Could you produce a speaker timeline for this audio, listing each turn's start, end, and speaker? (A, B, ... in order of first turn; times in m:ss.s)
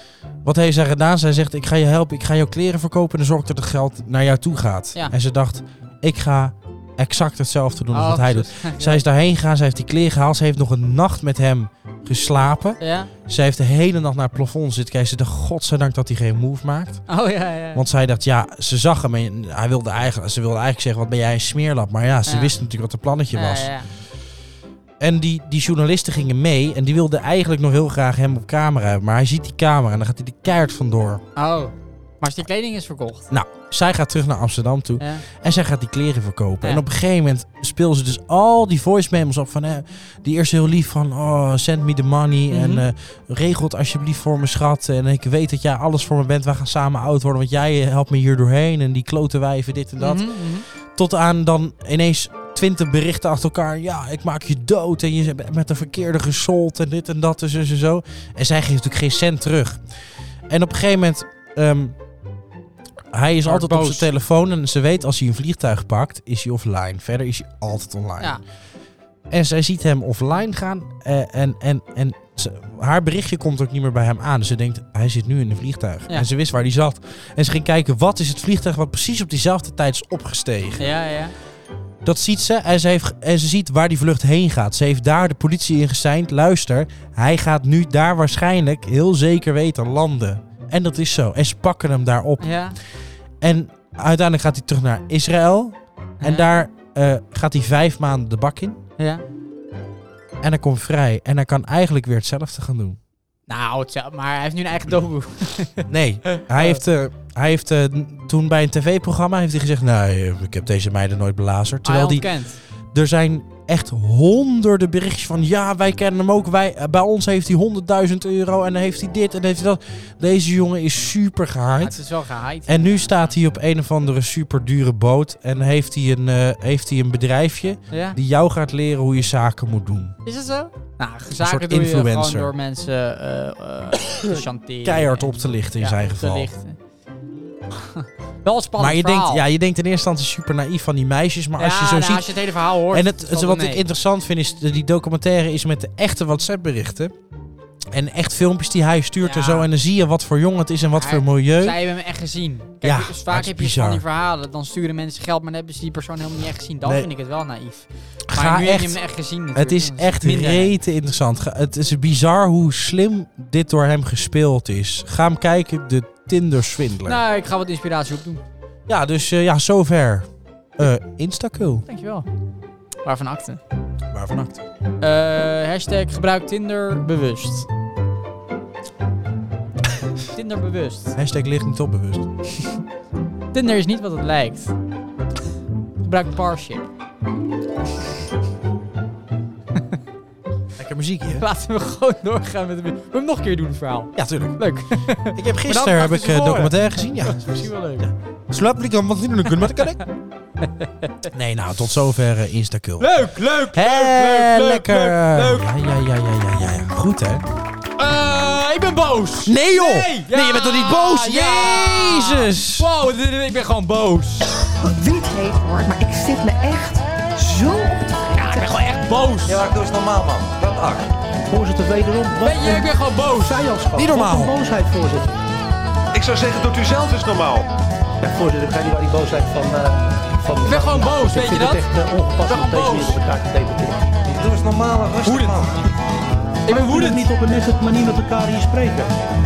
0:00.4-0:17.0 A
0:07.9-0:09.0 B
0:12.8-0:13.1 B
0:17.1-0:17.8 B
0:17.7-0:23.7 A
0:22.2-0:22.5 B
0:23.3-0:23.9 B
0:25.0-0:31.2 A
0:31.4-0:33.3 B
0:33.3-0:50.3 A
0:35.0-0:35.2 B
0:42.5-0:42.8 B
0:50.0-0:50.6 B
0:50.9-0:59.8 A
1:00.5-1:02.0 A
1:03.1-1:08.4 A
1:03.4-1:04.1 B
1:09.3-1:20.9 A
1:20.8-1:21.3 B
1:22.0-1:32.5 A
1:32.4-1:32.8 B
1:33.4-1:38.8 A
1:36.2-1:36.5 B
1:39.0-1:39.2 B
1:40.4-1:43.0 A
1:43.5-1:46.8 B
1:45.9-1:52.3 A
1:51.8-1:52.6 B
1:52.9-2:02.0 A
2:01.8-2:03.3 B
2:02.7-2:10.1 A
2:07.9-2:08.2 B
2:10.2-2:16.8 B
2:11.4-2:12.5 A
2:14.1-2:16.5 A
2:17.8-2:19.4 B
2:18.8-2:22.3 A
2:21.6-2:23.8 B
2:22.9-2:27.1 A
2:27.9-2:31.8 A
2:29.2-2:29.7 B
2:30.9-2:40.8 B
2:32.8-2:34.0 A
2:36.8-2:37.1 A
2:38.3-2:39.0 A
2:39.5-2:47.2 A
2:47.0-2:48.4 B
2:48.9-2:51.8 A
2:51.8-2:52.2 B
2:53.0-2:53.6 B
2:54.1-2:54.6 A
2:55.0-2:57.7 B
3:00.3-3:01.2 B
3:01.2-3:02.3 A
3:03.5-3:04.7 B
3:06.0-3:06.9 B
3:10.8-3:11.4 A
3:11.4-3:18.1 B
3:14.2-3:14.6 A
3:15.1-3:20.0 A
3:20.8-3:21.2 B
3:21.3-3:23.1 A
3:23.0-3:25.7 B
3:23.7-3:27.4 A
3:28.0-3:34.5 B
3:29.4-3:32.9 A
3:34.8-3:38.7 C
3:38.3-3:39.6 B
3:39.4-3:41.1 D
3:41.4-3:45.4 E
3:42.4-3:43.6 B
3:43.9-3:44.5 A
3:46.1-3:47.6 D
3:48.2-3:54.1 E
3:50.6-3:51.9 B
3:52.4-3:53.2 B
3:54.2-3:55.8 D
3:55.2-3:55.6 B
3:56.6-3:57.3 B
3:56.7-3:59.1 E